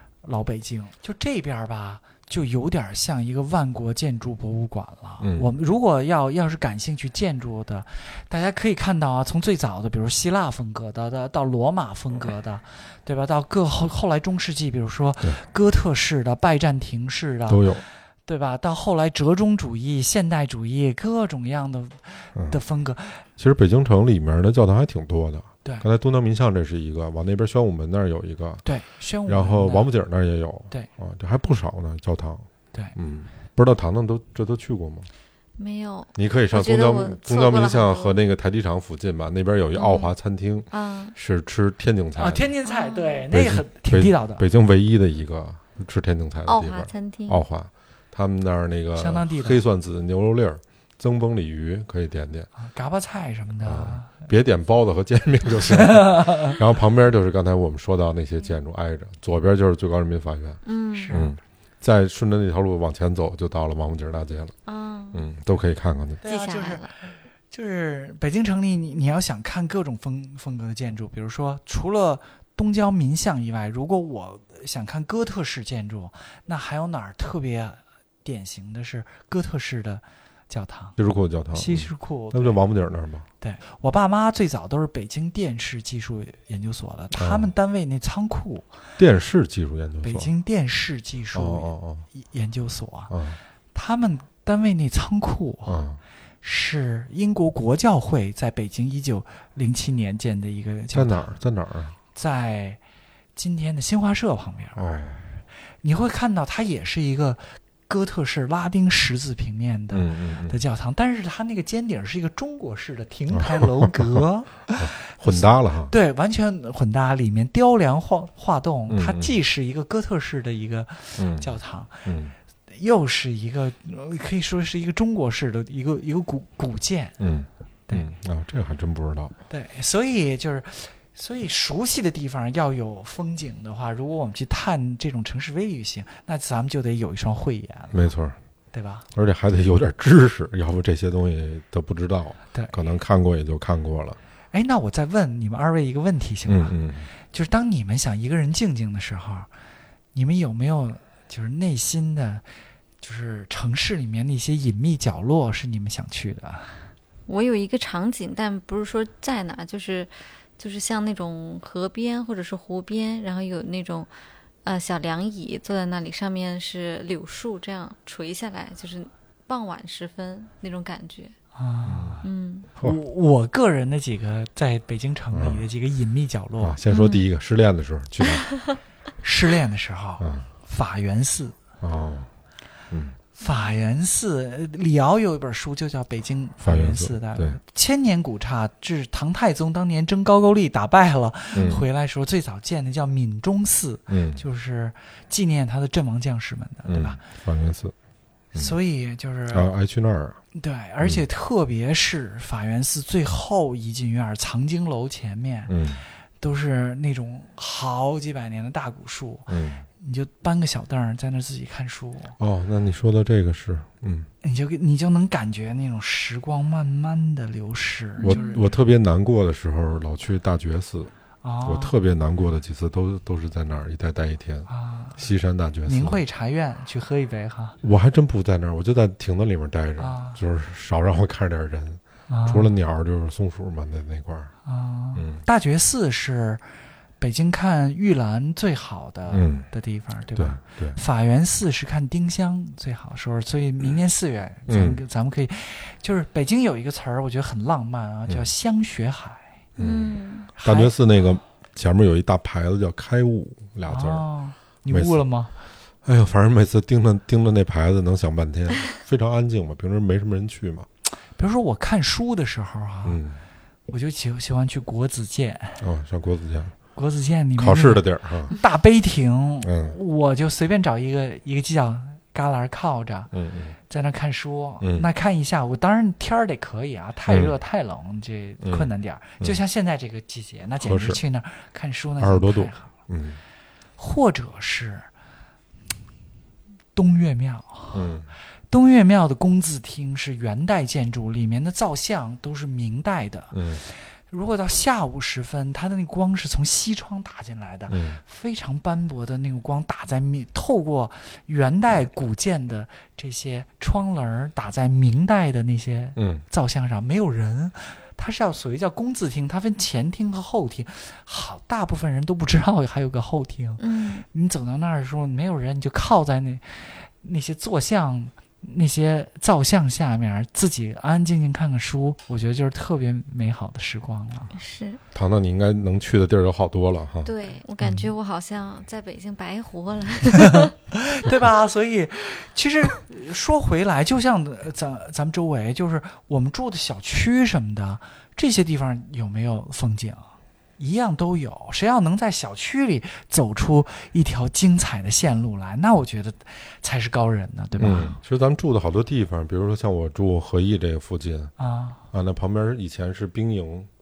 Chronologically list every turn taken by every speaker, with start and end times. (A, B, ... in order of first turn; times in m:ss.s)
0:00.2-0:23.2 A
0:05.2-0:05.5 B
0:17.5-0:17.8 B
0:23.4-0:28.7 B
0:28.6-0:29.9 A
0:29.3-0:35.1 B
0:35.6-0:38.2 C
0:36.2-0:42.4 B
0:39.7-0:40.1 C
0:40.7-0:41.2 C
0:42.2-0:44.4 A
0:42.7-0:43.2 C
0:43.3-0:52.5 B
0:46.4-0:47.4 C
0:49.0-0:49.6 A
0:52.6-0:54.1 A
0:53.6-1:04.6 B
0:55.8-0:56.6 A
1:00.7-1:01.3 C
1:00.9-1:01.3 A
1:04.7-1:05.3 C
1:05.1-1:06.2 B
1:06.2-1:06.9 A
1:06.2-1:06.9 C
1:07.5-1:21.0 A
1:21.0-1:23.3 B
1:21.5-1:22.6 A
1:23.4-1:28.7 A
1:27.1-1:27.5 B
1:29.0-1:30.3 B
1:30.0-1:33.1 A
1:31.3-1:32.0 B
1:33.1-1:33.4 B
1:33.7-1:35.8 A
1:35.7-1:36.0 B
1:36.4-1:41.3 A
1:40.9-1:42.0 B
1:42.1-1:42.8 A
1:43.4-1:45.2 A
1:44.8-1:45.2 B
1:45.8-2:02.0 A
1:49.9-1:50.6 B
1:53.3-1:54.2 B
1:54.7-1:55.9 B
1:58.9-1:59.3 B
2:01.2-2:01.5 B
2:02.0-2:02.3 B
2:02.7-2:07.2 A
2:07.2-2:09.3 B
2:09.5-2:18.1 A
2:17.9-2:18.4 B
2:18.7-2:19.0 A
2:19.1-2:24.2 B
2:24.5-2:29.5 A
2:26.5-2:27.1 B
2:30.1-2:32.4 A
2:33.0-2:36.8 A
2:37.3-2:44.1 C
2:44.6-2:51.3 C
2:51.6-2:56.8 A
2:51.9-2:52.2 B
2:52.2-2:52.7 C
2:55.3-2:55.6 B
2:56.6-2:58.5 B
2:56.9-2:57.2 C
2:59.2-3:01.6 A
3:00.2-3:00.5 B
3:01.8-3:02.3 B
3:02.9-3:03.2 B
3:03.4-3:17.2 A
3:03.4-3:03.7 C
3:06.6-3:07.6 B
3:11.5-3:11.8 B
3:14.1-3:14.4 B
3:16.9-3:17.9 B
3:18.5-3:19.7 A
3:19.5-3:20.4 B
3:20.5-3:25.7 A
3:25.7-3:26.0 B
3:26.4-3:32.4 A
3:29.5-3:29.8 B
3:32.4-3:34.3 B
3:34.4-3:38.7 A
3:38.2-3:41.1 B
3:38.2-3:38.6 C
3:41.4-3:41.9 A
3:41.6-3:46.2 B
3:44.7-3:45.2 A
3:45.9-3:47.8 A
3:47.8-3:54.5 B
3:50.0-3:50.4 A
3:52.3-3:52.7 A
3:54.7-3:56.6 A
3:55.2-3:55.4 B
3:57.2-4:09.5 A
3:59.3-3:59.7 B
4:00.4-4:01.0 B
4:04.7-4:05.0 B
4:09.8-4:10.5 C
4:09.8-4:14.2 B
4:10.6-4:10.9 A
4:13.9-4:15.5 A
4:14.9-4:15.2 B
4:16.0-4:20.9 B
4:21.4-4:23.2 A
4:23.0-4:23.4 B
4:23.9-4:25.8 A
4:25.8-4:26.7 B
4:27.0-4:33.3 A
4:27.6-4:28.5 B
4:29.6-4:30.0 B
4:33.3-4:33.8 B
4:33.9-4:42.9 A
4:34.8-4:35.1 B
4:37.3-4:37.5 B
4:38.6-4:38.9 B
4:40.8-4:41.2 B
4:42.2-4:43.4 B
4:44.0-4:45.1 A
4:47.0-4:48.1 A
4:47.9-4:48.3 B
4:48.7-5:24.5 A
4:53.5-4:53.8 B
4:57.9-4:58.2 B
5:06.2-5:06.4 B
5:13.8-5:14.2 C
5:24.5-5:25.0 C
5:25.1-5:27.3 B
5:27.2-5:30.7 C
5:27.8-5:28.1 A
5:30.5-5:48.2 A
5:47.8-5:51.5 B
5:51.6-5:52.0 A
5:52.1-5:53.9 B